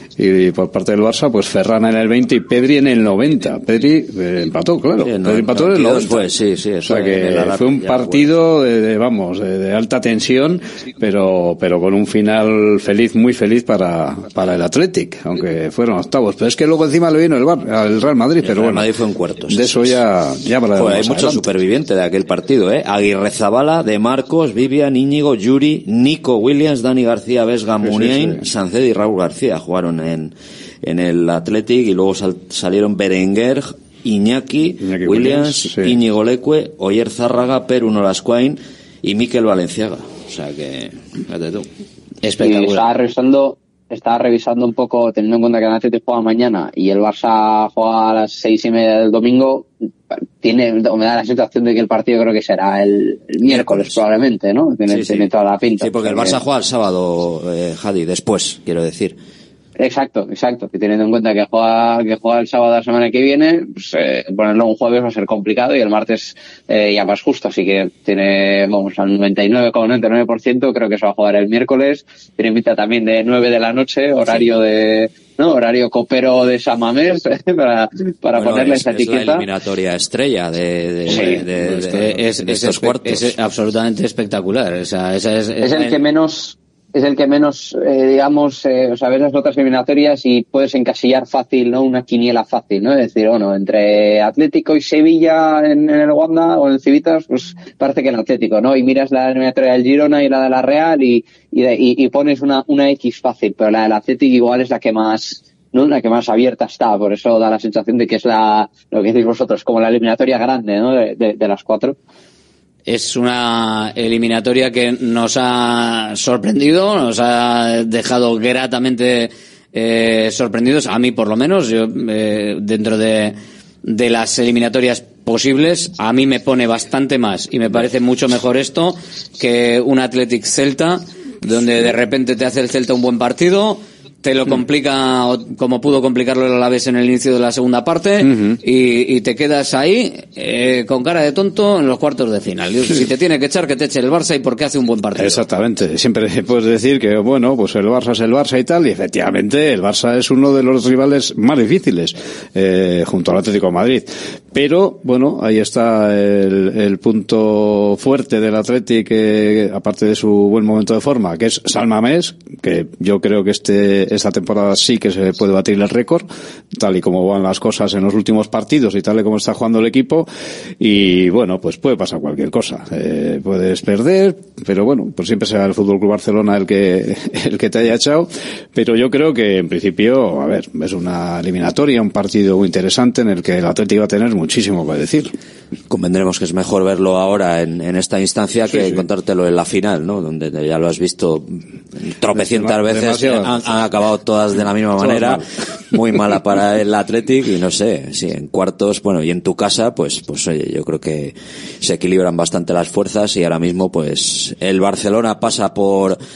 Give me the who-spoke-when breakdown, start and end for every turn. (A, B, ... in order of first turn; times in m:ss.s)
0:00.2-0:06.3 A
0:05.0-0:08.4 B
0:06.8-0:18.9 A
0:18.4-0:20.0 B
0:19.5-0:21.5 A
0:20.8-0:41.7 B
0:27.8-0:28.4 A
0:34.8-0:36.0 A
0:42.2-0:42.9 C
0:42.4-0:49.7 D
0:50.4-0:56.4 D
0:53.5-0:54.0 B
0:54.9-0:59.2 B
0:59.8-1:19.5 D
1:18.4-1:23.3 B
1:21.1-1:26.0 C
1:25.6-1:52.0 D
1:52.9-2:25.5 C
2:18.2-2:18.6 A
2:25.2-2:50.3 A
2:50.8-3:05.3 A
3:05.9-3:26.2 B
3:08.7-3:09.0 A
3:12.3-3:13.7 A
3:15.0-3:15.4 A